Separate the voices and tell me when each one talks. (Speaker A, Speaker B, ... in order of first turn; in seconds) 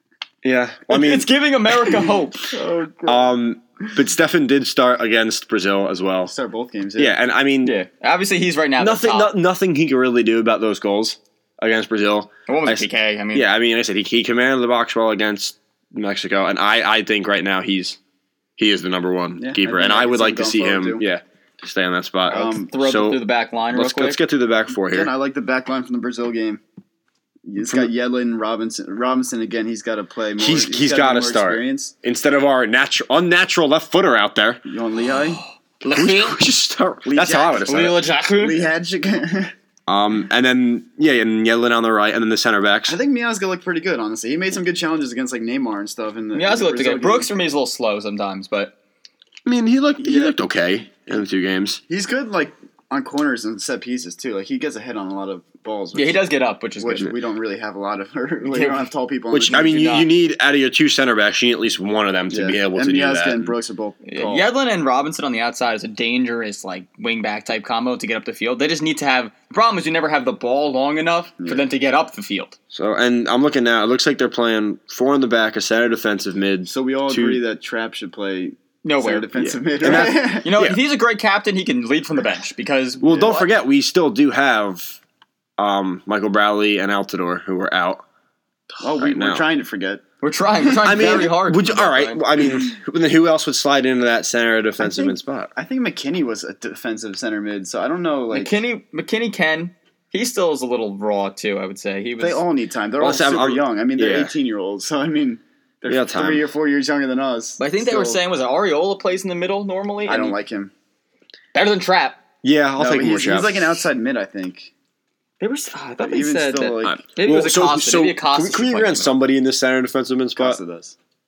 Speaker A: 0.4-1.3, 3.0-6.3, 7.0-7.8, 8.8-18.0, 18.6-23.2, 23.7-25.1, 27.6-27.9, 30.4-34.6, 35.9-38.0, 39.9-43.0, 49.5-51.8, 59.3-63.5, 72.7-77.4, 79.4-80.8, 83.0-85.0, 85.6-88.0, 89.0-89.4, 90.8-95.5, 103.0-104.3, 105.8-106.5, 112.4-113.8, 116.8-120.6
Speaker B: 0.9-2.5, 7.6-9.3, 12.5-13.4, 22.3-24.2, 35.4-36.4, 37.6-38.7, 46.3-48.7, 55.9-57.1, 58.5-58.9, 59.5-60.1, 64.0-72.5, 78.8-79.3, 79.8-83.5, 90.2-92.2, 98.3-102.4, 107.6-110.3, 111.5-112.2, 115.4-119.1
Speaker C: 2.5-3.3, 6.3-7.2, 19.4-21.0, 22.3-22.7, 24.9-26.6, 27.5-31.9, 34.6-35.4, 37.0-39.5, 42.9-47.3, 50.0-50.3, 51.9-56.3, 56.8-60.0, 62.3-64.5, 71.4-71.7, 76.7-80.5, 88.8-90.0, 90.9-91.2, 94.8-98.6, 102.2-108.2, 110.0-110.7, 112.8-114.7, 116.0-117.0, 120.3-120.9